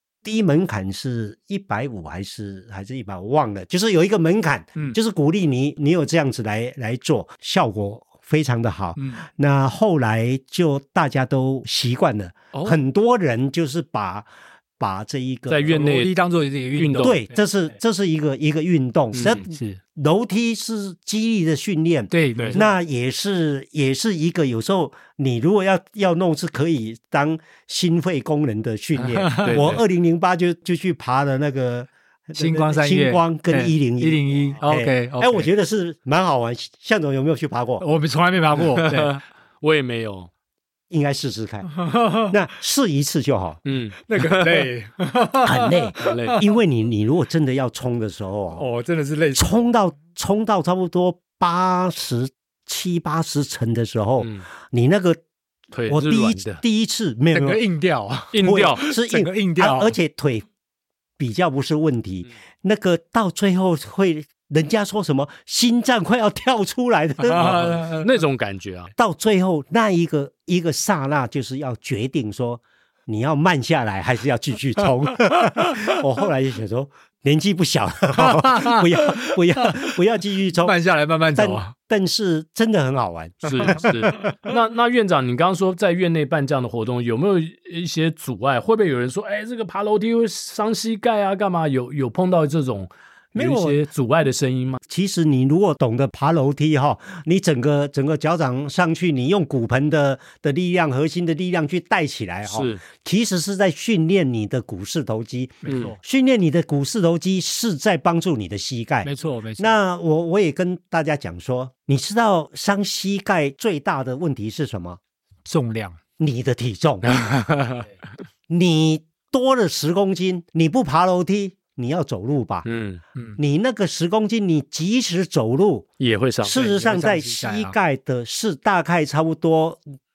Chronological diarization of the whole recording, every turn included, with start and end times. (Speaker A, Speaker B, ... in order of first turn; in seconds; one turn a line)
Speaker A: 0.2-14.3
Speaker B: 9.0-9.2
Speaker A: 14.8-15.9
Speaker C: 15.5-16.1
Speaker B: 15.7-17.3
Speaker C: 16.8-17.2
Speaker A: 17.0-37.9
Speaker C: 19.1-19.4
Speaker B: 19.5-19.8
Speaker B: 22.1-22.7
Speaker B: 29.0-29.7
Speaker C: 29.4-29.8
Speaker B: 32.4-35.5
Speaker B: 37.8-39.2
Speaker C: 38.8-40.3
Speaker A: 40.9-41.7
Speaker B: 41.8-42.3
Speaker A: 42.3-43.6
Speaker C: 43.6-44.7
Speaker B: 44.2-46.4
Speaker A: 45.4-48.6
Speaker C: 46.0-46.4
Speaker B: 48.6-49.5
Speaker A: 49.4-55.2
Speaker C: 54.2-54.5
Speaker C: 55.7-56.6
Speaker A: 55.9-57.6
Speaker B: 57.3-59.9
Speaker C: 58.3-58.8
Speaker A: 58.4-60.5
Speaker A: 61.2-67.8
Speaker B: 67.3-68.1
Speaker C: 67.4-68.9
Speaker A: 69.0-80.8
Speaker B: 78.2-79.9
Speaker B: 80.6-81.7
Speaker A: 81.3-83.9
Speaker C: 83.4-94.8
Speaker B: 83.7-84.4
Speaker A: 93.3-93.9
Speaker A: 94.9-115.0
Speaker C: 102.5-102.8
Speaker B: 105.6-106.0
Speaker C: 105.7-106.0
Speaker B: 109.0-109.8
Speaker B: 115.5-116.0
Speaker A: 116.2-117.1
Speaker C: 117.1-117.9
Speaker A: 118.5-122.7
Speaker C: 122.7-123.0
Speaker A: 123.4-125.9
Speaker C: 126.0-126.7
Speaker A: 126.4-129.8
Speaker B: 126.6-127.8